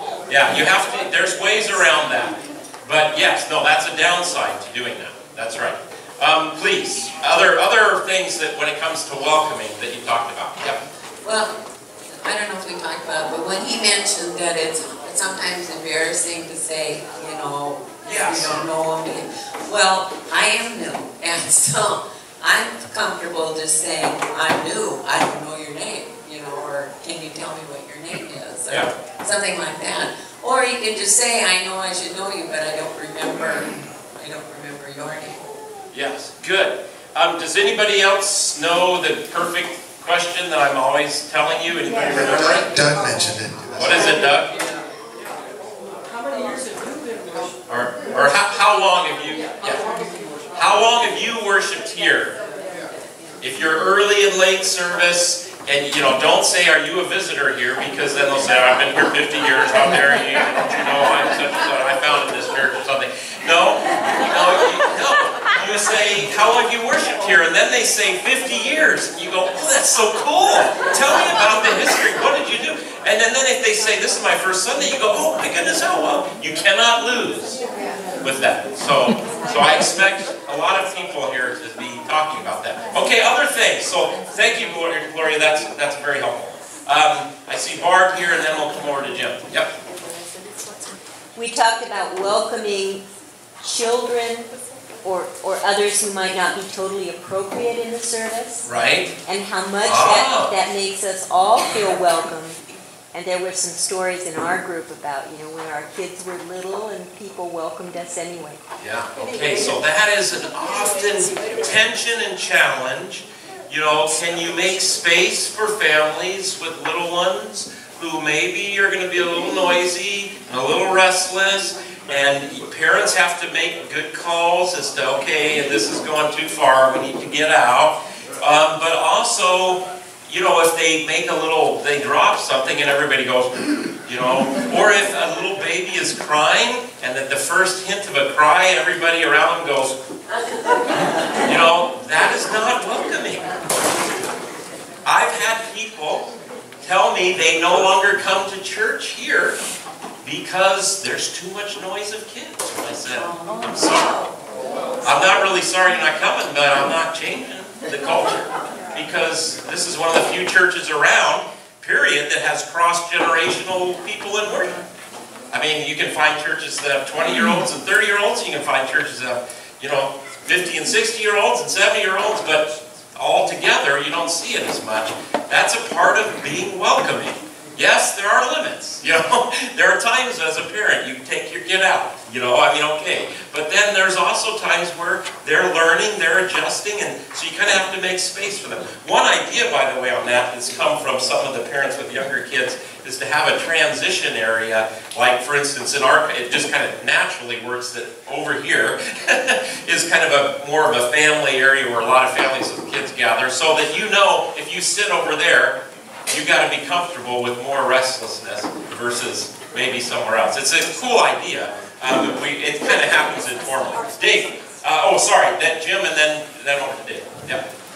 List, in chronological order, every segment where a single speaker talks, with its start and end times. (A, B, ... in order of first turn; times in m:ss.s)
0:00.3-0:10.8 A
0:11.2-0:11.5 B
0:12.1-0:35.4 B
0:18.0-0:18.6 A
0:35.9-0:42.7 A
0:42.0-0:44.2 C
0:43.7-0:44.5 A
0:47.7-0:49.9 A
0:50.5-0:52.3 A
0:53.4-1:17.6 A
1:18.2-1:29.7 A
1:31.3-1:33.0 D
1:33.6-1:34.5 D
1:35.0-1:38.7 D
1:38.6-1:39.1 A
1:39.2-1:42.6 D
1:39.8-1:40.5 A
1:43.1-1:48.6 D
1:48.8-2:20.0 A
2:21.4-2:23.5 A
2:25.0-2:26.3 A
2:26.8-2:29.6 A
2:30.2-2:34.2 A
2:35.0-2:44.8 A
2:45.5-3:25.8 A
3:26.3-3:37.6 A